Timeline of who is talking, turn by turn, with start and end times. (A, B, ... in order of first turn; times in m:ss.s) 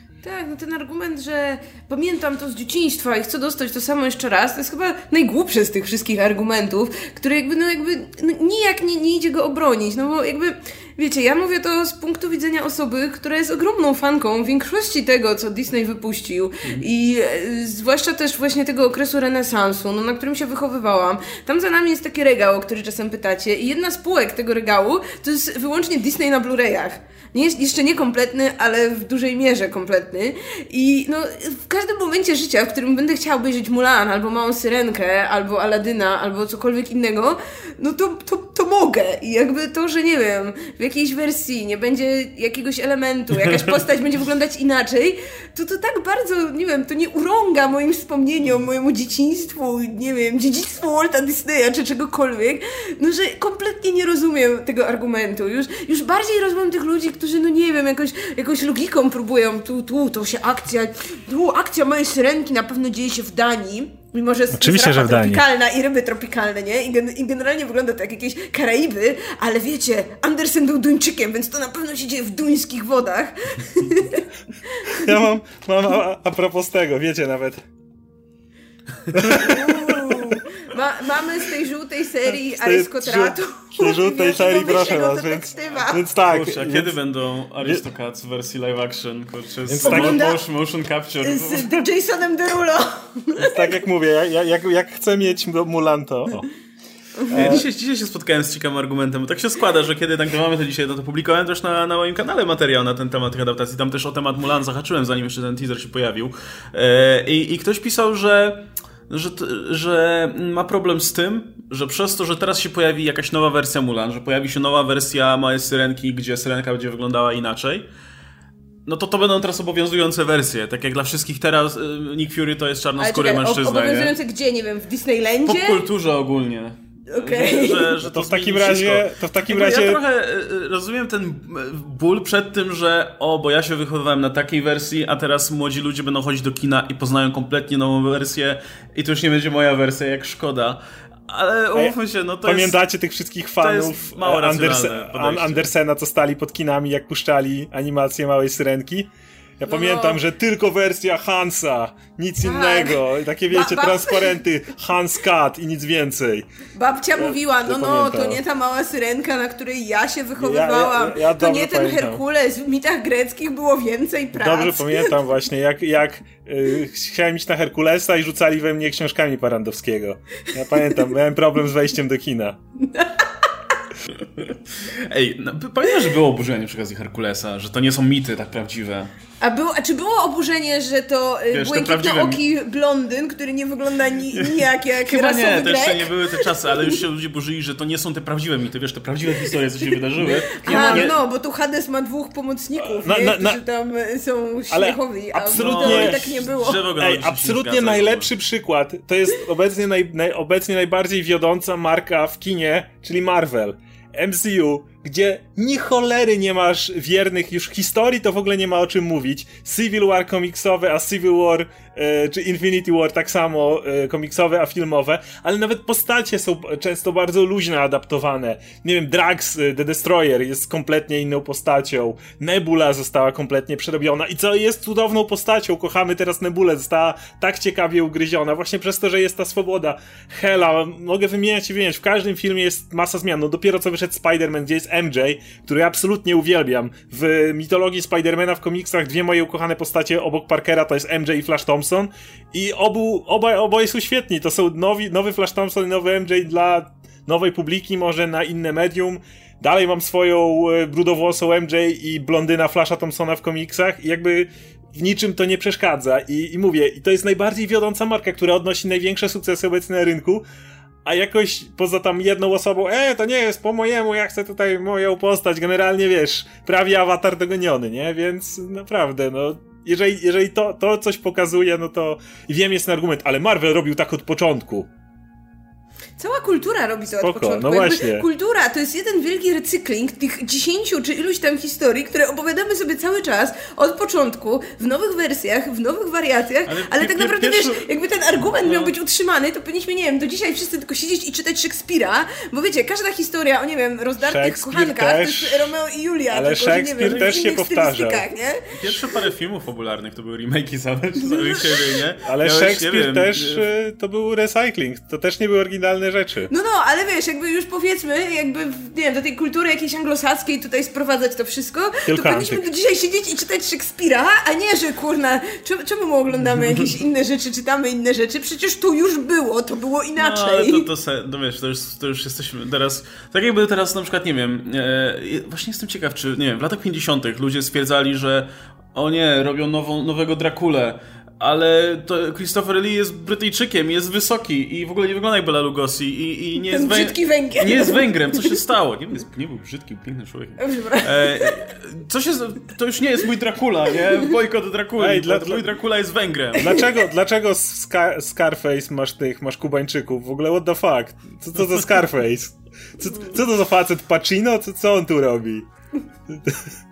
0:00.2-1:15.2 A
1:04.5-1:05.4 B
1:14.9-1:17.6 B
1:19.0-1:19.6 C
1:19.1-1:20.3 B
1:19.4-1:26.1 A
1:22.3-1:27.0 B
1:26.2-1:31.8 C
1:29.7-1:30.3 B
1:29.8-1:30.4 A
1:31.2-1:33.8 A
1:33.4-1:36.5 B
1:37.2-1:37.5 A
1:37.3-1:57.9 C
1:37.3-1:37.6 B
1:58.8-2:04.1 C
2:03.0-2:05.8 A
2:05.4-2:22.8 C
2:07.1-2:08.0 A
2:08.0-2:10.0 B
2:21.7-2:36.4 B
2:23.6-2:25.7 C
2:29.6-2:30.2 A
2:32.4-2:34.4 A
2:36.8-2:45.1 A
2:37.2-2:38.4 B
2:40.4-2:42.2 B
2:44.3-2:52.6 B
2:52.8-2:53.2 A
2:54.2-2:59.1 C
2:59.4-3:07.0 A
3:01.5-3:02.4 C
3:04.3-3:11.2 C
3:10.2-3:16.8 A
3:10.6-3:11.1 B
3:12.8-3:13.6 B
3:14.7-3:16.2 B
3:15.5-3:18.3 C
3:17.0-4:20.4 B
4:21.0-4:34.9 B
4:36.2-4:59.0 A
4:37.2-4:38.2 B
4:46.6-4:47.8 C
4:48.6-4:48.9 C
4:54.2-4:55.7 B
4:56.3-4:58.2 B
4:57.0-4:57.4 C
4:58.7-5:03.6 C
5:01.2-5:02.0 A
5:02.2-5:06.5 B
5:06.5-5:20.9 A
5:12.1-5:12.6 B
5:20.2-5:46.8 C
5:36.7-5:38.5 A
5:40.6-5:41.7 A
5:45.0-5:45.8 B
5:46.5-5:55.7 B
5:46.6-5:46.8 A
5:56.3-5:56.6 B